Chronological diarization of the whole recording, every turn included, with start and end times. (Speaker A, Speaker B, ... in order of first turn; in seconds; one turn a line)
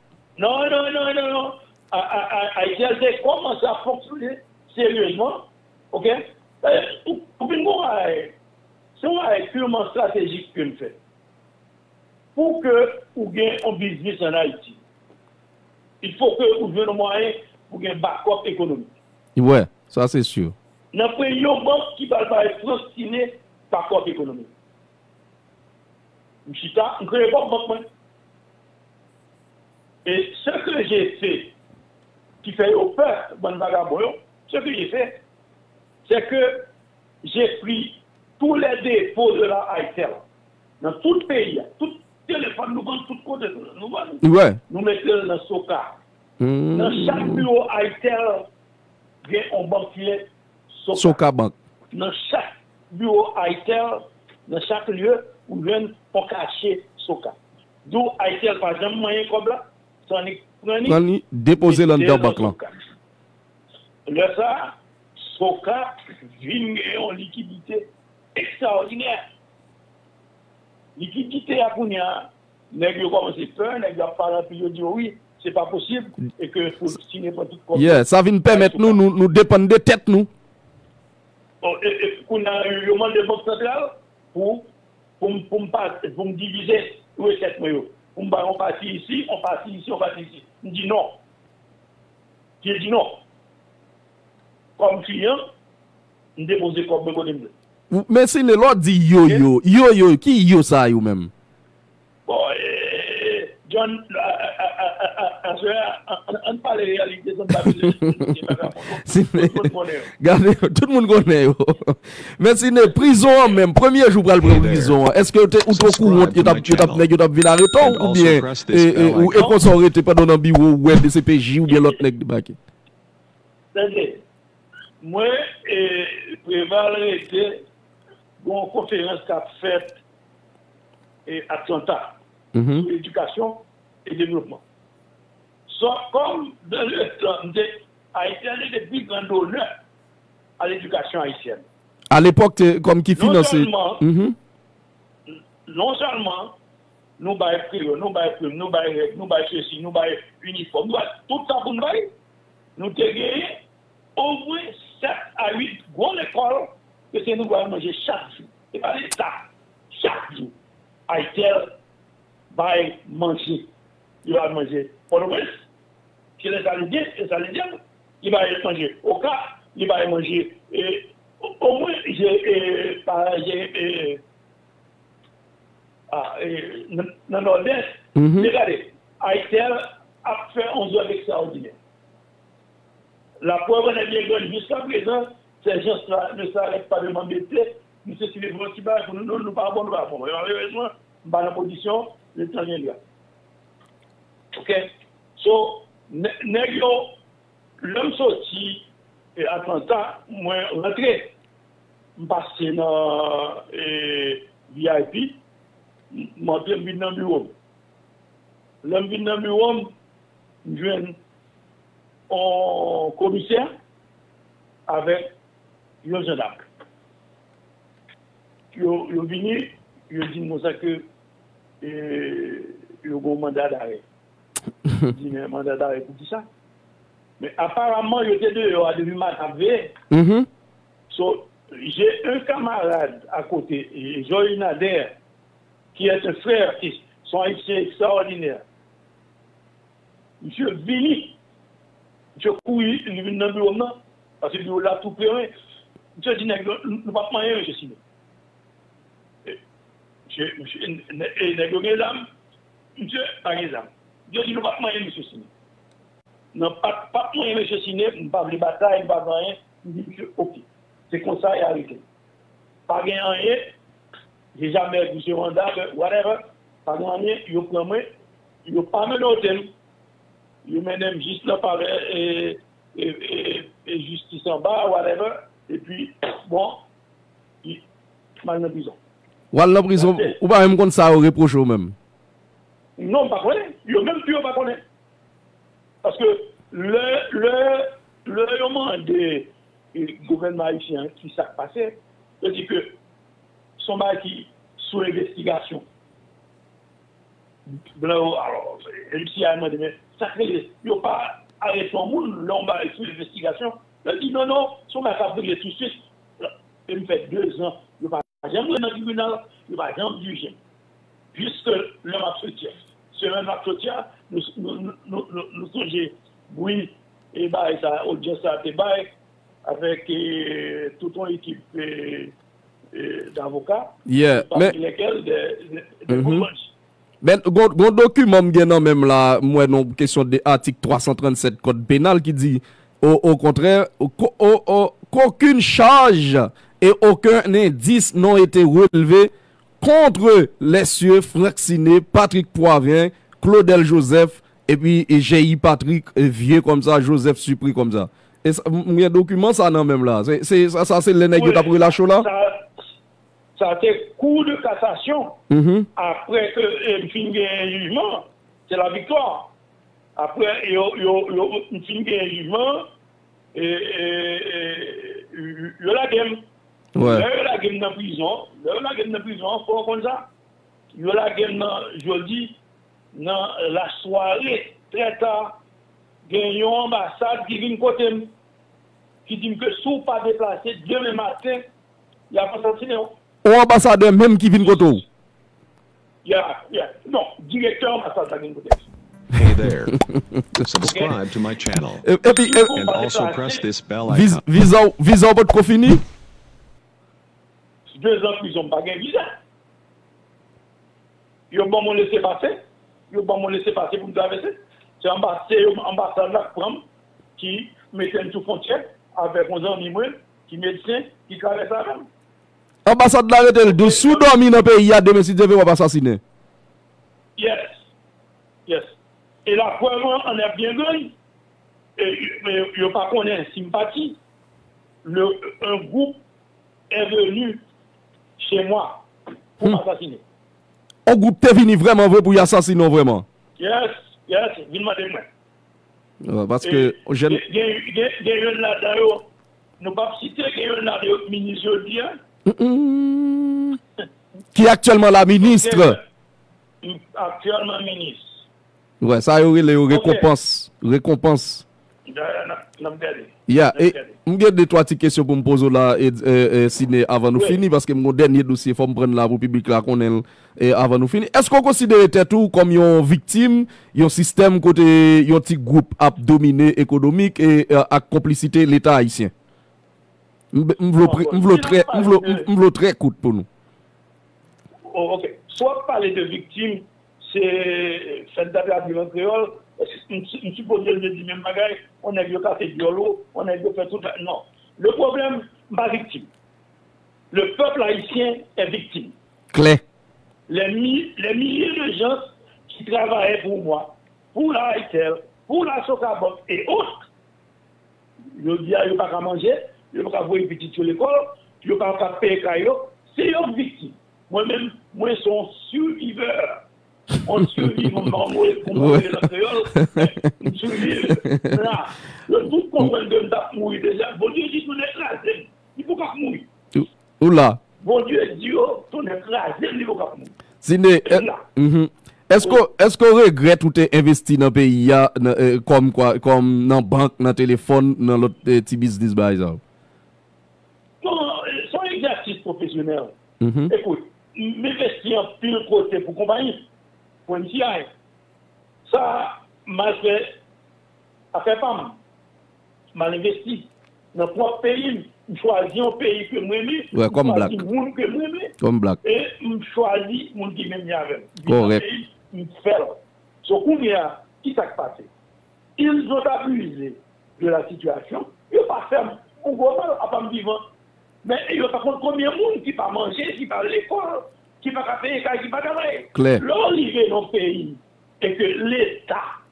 Speaker A: 0.4-8.3
Speaker A: 9.0-11.0
Speaker A: 12.4-14.8
Speaker A: 16.0-18.9
Speaker B: 19.4-20.6
Speaker A: 20.9-24.5
Speaker A: 26.5-27.9
Speaker A: 30.1-31.5
Speaker A: 32.4-35.2
Speaker A: 36.1-36.7
Speaker A: 37.2-40.2
Speaker A: 40.8-46.0
Speaker B: 44.2-44.6
Speaker B: 46.4-47.5
Speaker A: 46.7-48.5
Speaker A: 49.2-51.2
Speaker B: 50.9-51.5
Speaker A: 51.9-61.0
Speaker B: 60.9-62.5
Speaker A: 61.6-62.8
Speaker A: 64.1-69.2
Speaker A: 71.0-79.0
Speaker B: 77.8-80.3
Speaker A: 81.6-84.7
Speaker A: 85.2-91.2
Speaker A: 92.6-93.2
Speaker A: 94.8-95.4
Speaker A: 96.4-97.5
Speaker B: 97.9-101.3
Speaker A: 102.3-110.1
Speaker B: 107.7-108.2
Speaker B: 109.0-122.6
Speaker C: 114.4-115.0
Speaker C: 115.7-117.1
Speaker C: 117.8-119.4
Speaker A: 123.7-124.2
Speaker A: 125.0-127.6
Speaker A: 128.4-130.0
Speaker A: 131.3-132.2
Speaker B: 132.5-132.9
Speaker A: 132.8-134.6
Speaker A: 135.7-139.7
Speaker A: 140.6-141.6
Speaker B: 142.1-144.4
Speaker A: 143.2-144.0
Speaker A: 145.3-146.5
Speaker A: 147.2-152.1
Speaker A: 152.8-153.6
Speaker A: 154.2-159.4
Speaker A: 159.9-160.5
Speaker A: 161.1-161.7
Speaker A: 162.5-163.7
Speaker A: 164.2-165.5
Speaker A: 166.4-174.2
Speaker A: 176.1-181.8
Speaker B: 178.2-178.5
Speaker A: 183.4-193.0
Speaker A: 194.5-197.1
Speaker A: 197.8-198.8
Speaker A: 199.4-201.3
Speaker A: 202.2-205.4
Speaker A: 206.1-207.5
Speaker A: 208.8-209.9
Speaker A: 210.7-211.2
Speaker A: 212.3-213.7
Speaker A: 214.9-215.3
Speaker A: 216.0-216.7
Speaker A: 218.7-221.1
Speaker A: 221.8-224.0
Speaker A: 225.1-226.5
Speaker A: 227.4-229.9
Speaker B: 230.1-230.5
Speaker A: 231.1-235.1
Speaker A: 235.9-238.6
Speaker A: 240.4-241.4
Speaker A: 242.4-245.5
Speaker A: 246.2-248.0
Speaker A: 250.3-252.3
Speaker A: 253.0-255.5
Speaker A: 256.5-262.0
Speaker A: 262.9-263.6
Speaker A: 264.6-268.1
Speaker A: 268.7-269.7
Speaker A: 270.6-276.8
Speaker A: 278.4-279.0
Speaker B: 279.5-281.9
Speaker A: 280.0-280.4
Speaker A: 283.0-284.8
Speaker A: 286.0-292.9
Speaker A: 293.8-295.9
Speaker A: 297.7-310.6
Speaker A: 311.3-319.1
Speaker A: 319.7-322.3
Speaker A: 322.9-326.7
Speaker B: 324.1-324.8
Speaker B: 326.1-326.5
Speaker B: 327.2-352.3
Speaker A: 351.3-352.6
Speaker A: 353.6-355.4
Speaker B: 355.5-355.9
Speaker A: 356.0-359.5
Speaker A: 360.2-362.9
Speaker A: 363.6-366.4
Speaker B: 366.9-367.2
Speaker A: 367.0-370.3
Speaker A: 370.9-372.6
Speaker A: 373.1-375.6
Speaker A: 376.3-378.3
Speaker A: 379.3-381.6
Speaker A: 382.3-383.1
Speaker B: 383.4-385.0
Speaker A: 386.2-388.9
Speaker C: 389.3-390.0
Speaker B: 390.1-390.6
Speaker C: 390.6-392.1
Speaker A: 390.8-391.1
Speaker B: 392.0-392.7
Speaker A: 392.4-393.6
Speaker C: 392.7-394.4
Speaker B: 394.1-396.0
Speaker A: 397.9-399.3
Speaker A: 401.5-402.6
Speaker A: 403.1-406.8
Speaker A: 407.4-412.1
Speaker B: 412.9-416.2
Speaker A: 413.7-414.3
Speaker A: 417.4-417.8
Speaker A: 418.7-418.9
Speaker A: 419.5-421.1
Speaker A: 422.0-424.2
Speaker A: 425.0-426.2
Speaker A: 426.9-427.6
Speaker A: 428.4-429.1
Speaker A: 429.6-430.2
Speaker B: 431.1-433.2
Speaker A: 433.6-435.3
Speaker B: 436.2-437.4
Speaker A: 436.6-439.3
Speaker A: 439.8-442.2
Speaker B: 442.4-443.8
Speaker B: 444.5-446.0
Speaker A: 445.4-446.0
Speaker A: 446.8-448.3
Speaker B: 449.0-451.6
Speaker A: 449.9-450.3
Speaker A: 452.1-454.1
Speaker B: 453.5-469.3
Speaker A: 457.3-457.6
Speaker B: 470.5-473.5
Speaker A: 471.0-472.5
Speaker A: 474.9-486.3
Speaker A: 487.3-489.1
Speaker B: 489.5-489.8
Speaker A: 490.5-497.0
Speaker A: 498.4-506.6
Speaker A: 507.2-516.5
Speaker B: 507.6-507.9
Speaker B: 508.7-510.5
Speaker B: 511.1-511.6
Speaker B: 516.8-517.6
Speaker A: 517.8-520.3
Speaker B: 520.6-529.6
Speaker A: 521.1-521.4
Speaker A: 531.0-533.1
Speaker B: 533.4-533.7
Speaker A: 533.7-536.6
Speaker A: 537.3-537.9
Speaker A: 538.9-540.3
Speaker A: 541.3-542.0
Speaker A: 542.9-548.5
Speaker B: 546.9-547.6
Speaker B: 548.6-549.0
Speaker A: 549.0-555.1
Speaker B: 551.5-551.8
Speaker A: 555.8-560.6
Speaker A: 561.2-569.2
Speaker B: 566.1-566.4